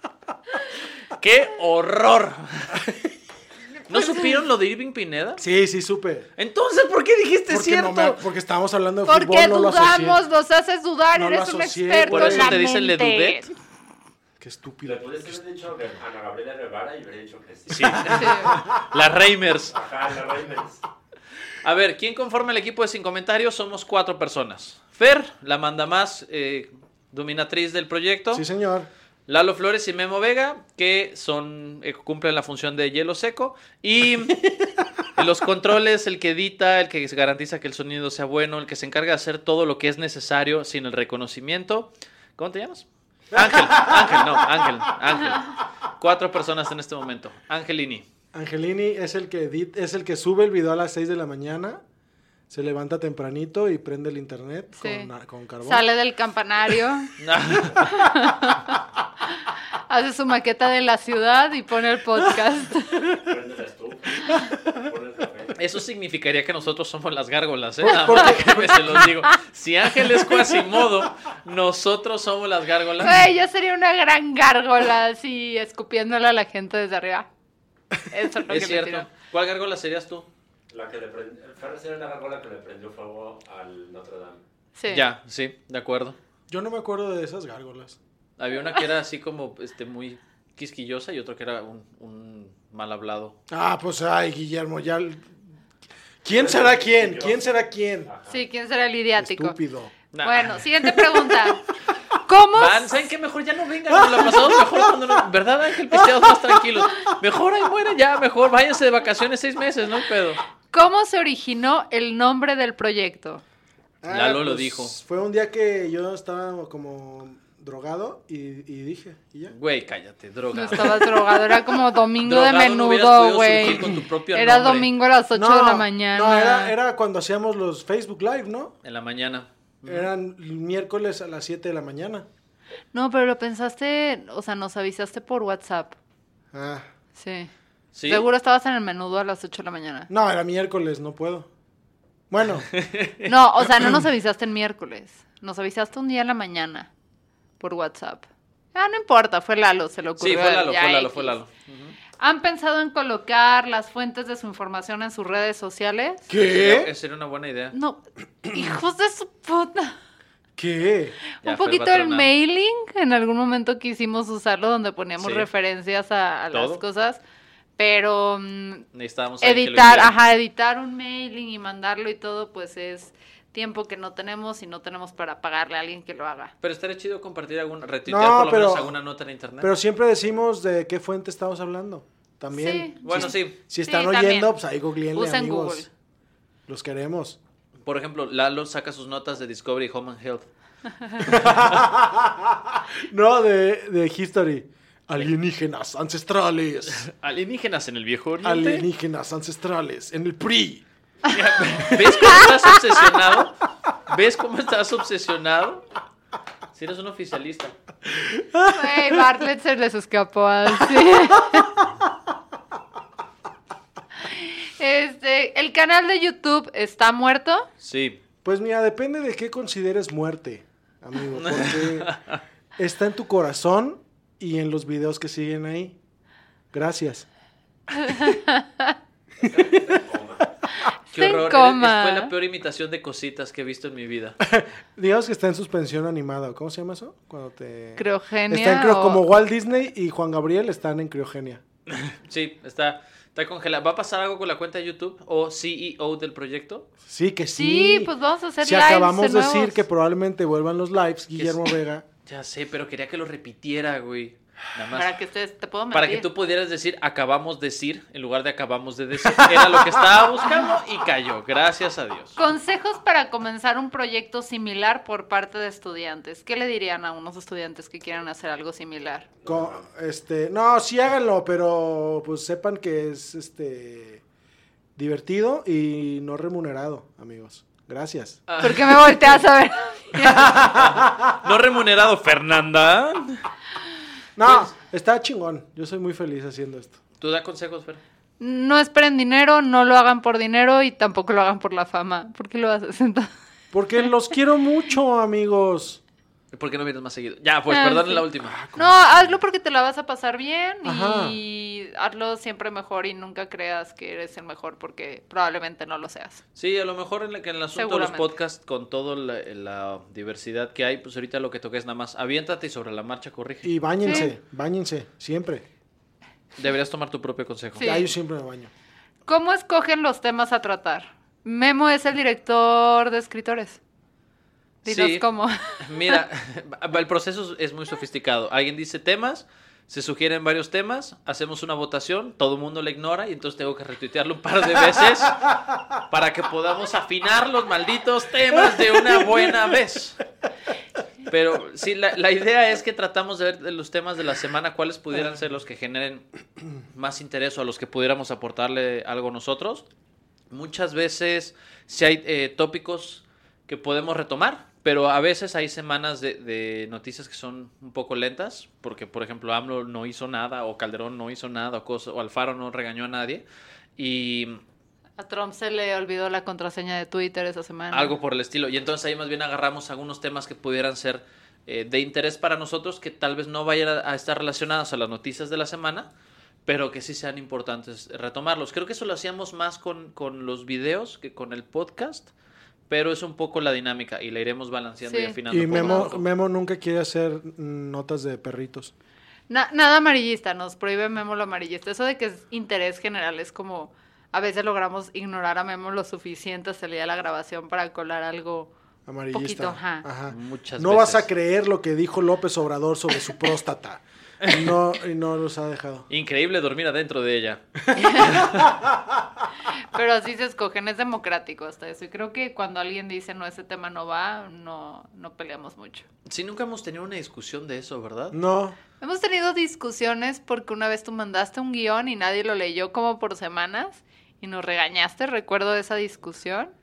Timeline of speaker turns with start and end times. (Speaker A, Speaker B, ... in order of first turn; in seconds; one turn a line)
Speaker A: 1.2-2.8
Speaker B: 3.9-4.3
Speaker A: 3.9-5.4
Speaker C: 5.4-6.3
Speaker A: 6.4-8.2
Speaker C: 7.5-10.2
Speaker B: 9.1-13.5
Speaker C: 11.1-12.6
Speaker A: 12.1-13.5
Speaker C: 14.4-15.4
Speaker D: 14.8-18.3
Speaker A: 17.7-19.8
Speaker C: 17.9-18.6
Speaker B: 18.1-18.6
Speaker D: 19.7-20.8
Speaker A: 21.6-28.4
Speaker C: 28.3-28.9
Speaker A: 29.3-34.5
Speaker A: 35.1-48.0
Speaker C: 43.3-44.9
Speaker C: 48.3-51.8
Speaker C: 52.5-55.9
Speaker B: 54.7-55.1
Speaker B: 55.6-57.1
Speaker A: 57.2-58.0
Speaker B: 57.8-58.8
Speaker B: 59.9-63.0
Speaker D: 63.1-65.6
Speaker A: 65.5-73.3
Speaker C: 67.8-69.2
Speaker B: 73.0-77.3
Speaker B: 78.1-79.1
Speaker A: 78.5-80.3
Speaker D: 80.7-84.4
Speaker B: 84.8-85.1
Speaker A: 84.9-86.2
Speaker C: 86.5-88.0
Speaker A: 88.4-93.4
Speaker C: 93.5-95.4
Speaker C: 96.2-98.1
Speaker D: 96.3-98.4
Speaker B: 98.3-99.6
Speaker C: 99.2-99.9
Speaker A: 100.1-100.6
Speaker B: 100.2-101.6
Speaker C: 100.9-101.4
Speaker B: 102.2-103.1
Speaker A: 102.5-110.4
Speaker C: 103.9-104.9
Speaker C: 105.9-106.6
Speaker B: 110.7-113.4
Speaker C: 114.0-119.5
Speaker A: 114.1-115.0
Speaker A: 119.5-121.1
Speaker B: 120.5-126.7
Speaker A: 122.2-124.9
Speaker C: 125.3-128.7
Speaker A: 128.8-130.1
Speaker C: 129.9-132.3
Speaker B: 132.9-136.0
Speaker C: 136.5-136.9
Speaker B: 137.2-137.5
Speaker A: 137.9-138.3
Speaker B: 138.1-140.1
Speaker C: 140.1-141.5
Speaker C: 142.3-142.7
Speaker A: 142.7-143.3
Speaker B: 143.3-146.9
Speaker B: 147.6-151.4
Speaker A: 150.2-152.0
Speaker B: 152.2-156.3
Speaker C: 156.3-156.9
Speaker A: 156.3-157.8
Speaker B: 157.7-160.0
Speaker C: 160.6-161.2
Speaker B: 161.4-167.2
Speaker A: 161.4-162.3
Speaker A: 165.2-165.5
Speaker A: 166.5-166.8
Speaker B: 167.8-168.9
Speaker A: 168.9-170.1
Speaker B: 169.4-176.5
Speaker A: 176.6-179.7
Speaker C: 178.1-179.0
Speaker C: 179.6-185.9
Speaker B: 182.5-184.6
Speaker A: 183.1-183.6
Speaker B: 185.1-185.9
Speaker C: 186.7-187.4
Speaker A: 187.8-190.5
Speaker A: 191.2-191.6
Speaker C: 191.2-197.1
Speaker A: 196.9-198.9
Speaker C: 198.4-200.8
Speaker A: 201.3-205.8
Speaker A: 206.8-207.7
Speaker C: 208.1-209.1
Speaker B: 208.7-211.7
Speaker B: 214.3-217.7
Speaker A: 217.8-218.2
Speaker C: 218.4-222.2
Speaker A: 221.3-222.4
Speaker C: 222.8-226.0
Speaker C: 226.7-227.3
Speaker B: 227.9-228.9
Speaker C: 229.4-230.5
Speaker D: 229.4-230.4
Speaker A: 231.1-234.4
Speaker B: 231.1-232.3
Speaker C: 234.4-241.6
Speaker B: 238.0-239.2
Speaker A: 241.9-246.9
Speaker C: 247.1-252.1
Speaker B: 247.6-249.8
Speaker A: 251.4-251.7
Speaker A: 252.3-255.1
Speaker B: 254.9-256.3
Speaker A: 255.9-262.4
Speaker C: 259.2-260.1
Speaker B: 262.4-269.3
Speaker C: 269.4-274.2
Speaker C: 275.0-278.4
Speaker A: 278.5-279.4
Speaker B: 278.6-280.7
Speaker C: 280.3-281.2
Speaker A: 280.8-283.4
Speaker C: 284.4-287.0
Speaker A: 284.5-284.7
Speaker A: 287.2-288.0
Speaker B: 288.4-293.3
Speaker C: 293.7-296.0
Speaker A: 296.5-298.6
Speaker B: 297.7-306.4
Speaker C: 298.4-299.3
Speaker C: 300.8-301.4
Speaker A: 306.6-314.2
Speaker B: 307.8-308.3
Speaker C: 313.6-315.6
Speaker B: 314.1-314.3
Speaker A: 316.6-317.9
Speaker B: 317.8-318.1
Speaker C: 317.8-318.7
Speaker B: 319.3-323.8
Speaker A: 324.9-325.2
Speaker B: 324.9-326.2
Speaker A: 325.8-340.2
Speaker A: 341.3-346.2
Speaker A: 346.9-349.9
Speaker A: 350.5-363.4
Speaker A: 364.0-364.6
Speaker B: 365.2-368.2
Speaker A: 367.9-376.1
Speaker A: 376.7-382.3
Speaker A: 382.9-386.2
Speaker B: 385.1-386.1
Speaker C: 385.5-388.9
Speaker B: 389.5-398.7
Speaker C: 399.1-406.1
Speaker B: 399.3-400.1
Speaker A: 400.3-401.3
Speaker A: 404.4-404.8
Speaker A: 406.1-408.7
Speaker B: 407.9-408.4
Speaker C: 408.3-409.2
Speaker B: 409.8-416.1
Speaker A: 416.3-418.4
Speaker C: 418.3-418.8
Speaker B: 419.0-426.7